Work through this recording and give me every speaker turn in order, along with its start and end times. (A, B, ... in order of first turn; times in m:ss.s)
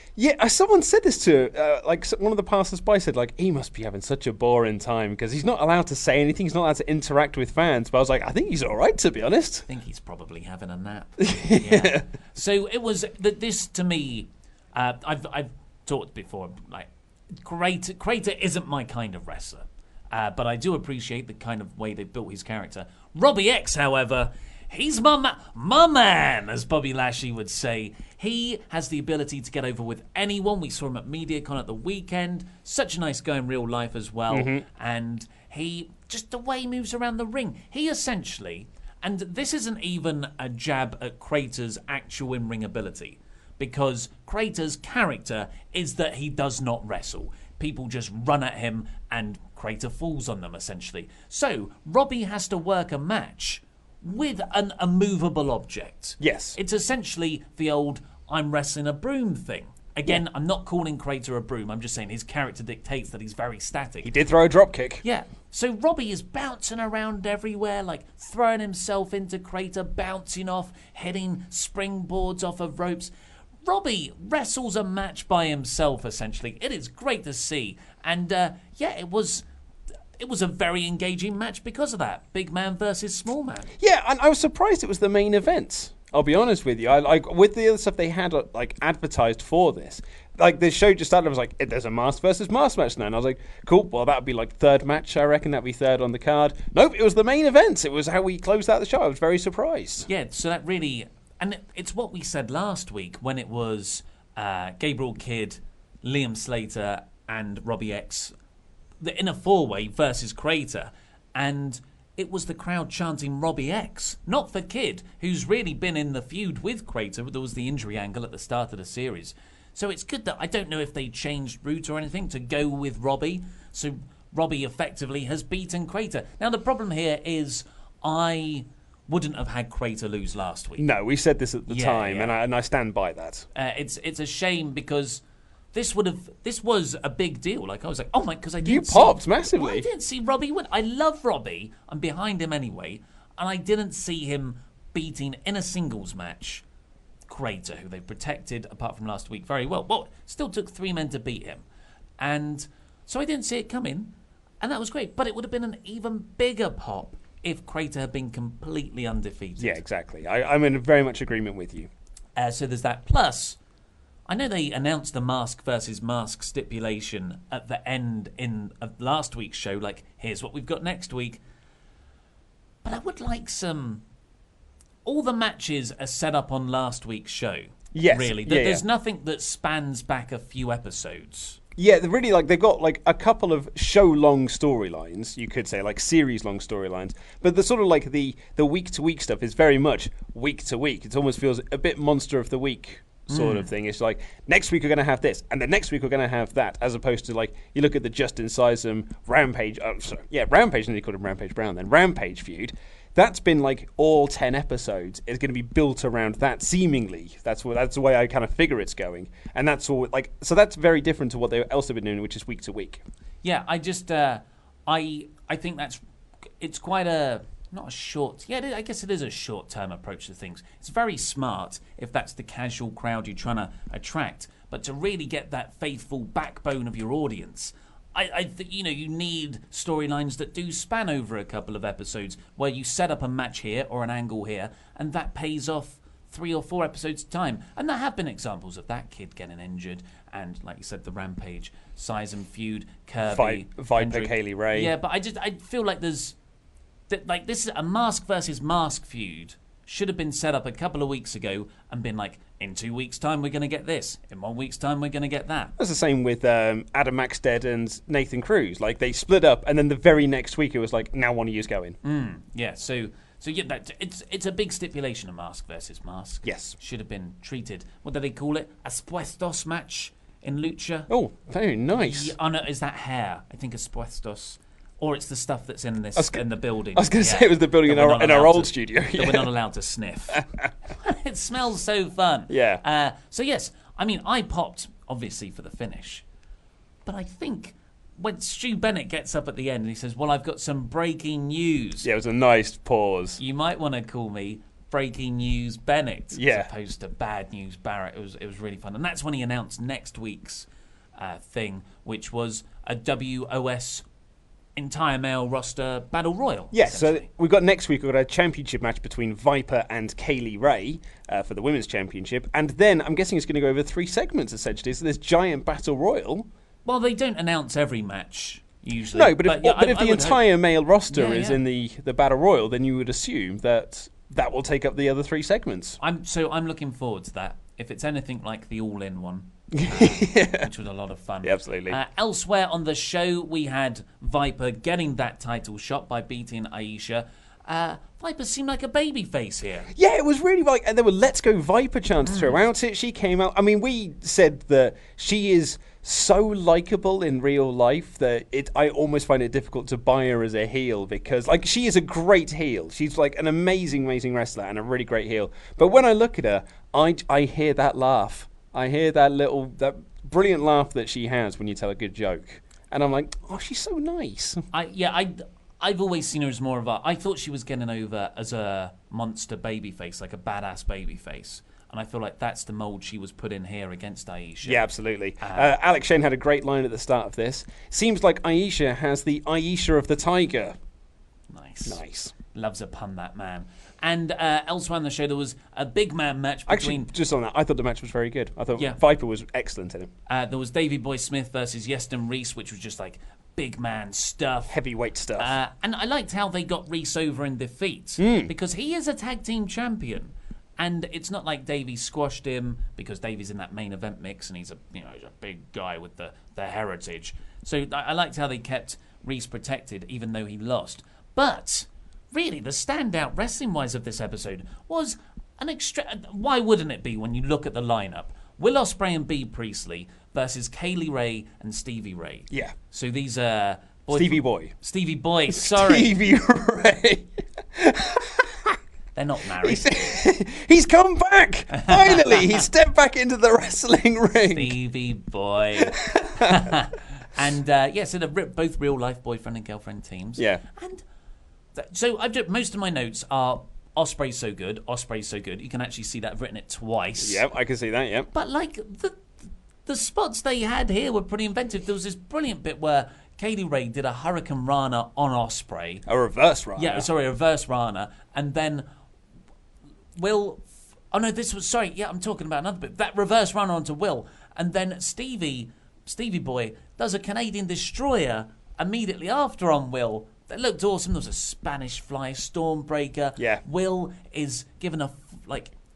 0:00.2-0:09.6 A
0:09.7-0:16.9 B
0:11.2-0:12.0 A
0:17.4-1:04.1 B
0:34.3-0:34.6 A
0:56.2-0:56.6 A
1:04.0-1:05.0 A
1:05.0-1:13.1 B
1:13.6-1:19.4 B
1:20.2-1:23.7 B
1:23.8-1:40.1 A
1:40.1-1:48.3 B
1:49.0-2:10.8 B
2:10.8-2:13.4 A
2:11.7-2:12.4 B
2:13.5-2:15.2 B
2:15.7-2:26.6 B
2:18.6-2:19.8 A
2:27.3-2:31.6 B
2:32.2-2:39.8 B
2:39.6-2:41.9 A
2:42.4-2:43.6 B
2:44.3-2:51.4 B
2:52.8-2:54.0 B
2:55.0-3:01.6 B
2:57.9-2:58.8 A
3:01.8-3:33.0 A
3:13.3-3:13.7 B
3:33.4-3:36.0 B
3:36.6-4:06.3 B
4:03.2-4:04.9 A
4:07.1-4:15.7 B
4:15.8-4:22.0 A
4:22.0-4:31.1 B
4:26.4-4:26.7 A
4:31.1-4:32.3 A
4:31.9-4:46.2 B
4:36.2-4:36.4 A
4:36.9-4:39.5 A
4:40.3-4:40.6 A
4:42.5-4:42.8 A
4:47.0-4:52.1 B
4:52.0-4:53.4 A
4:53.4-5:04.0 B
4:56.3-4:56.7 A
5:04.8-5:07.2 B
5:06.7-5:16.5 A
5:16.8-5:20.5 B
5:19.1-5:26.0 A
5:21.1-5:21.6 B
5:26.0-5:39.9 B
5:29.8-5:30.7 A
5:31.4-5:32.0 A
5:40.0-6:04.6 A
5:42.2-5:42.6 B
6:04.7-6:14.9 B
6:14.6-6:20.8 A
6:15.4-6:15.7 B
6:21.5-6:27.1 B
6:21.8-6:22.3 A
6:26.7-6:30.1 A
6:28.7-6:29.0 B
6:30.3-6:34.8 B
6:34.7-6:35.5 A
6:35.4-7:06.1 B
6:38.2-6:38.5 A
7:04.1-7:04.7 A
7:05.5-7:08.7 A
7:09.1-7:10.2 B
7:09.6-7:14.7 A
7:11.7-7:12.6 B
7:14.4-7:21.0 B
7:15.9-7:16.4 A
7:20.4-7:20.6 A
7:21.7-7:27.4 B
7:27.2-7:28.3 A
7:28.3-7:29.2 B
7:29.8-7:36.0 B
7:36.1-7:37.0 A
7:36.8-7:38.8 B
7:40.2-7:55.7 B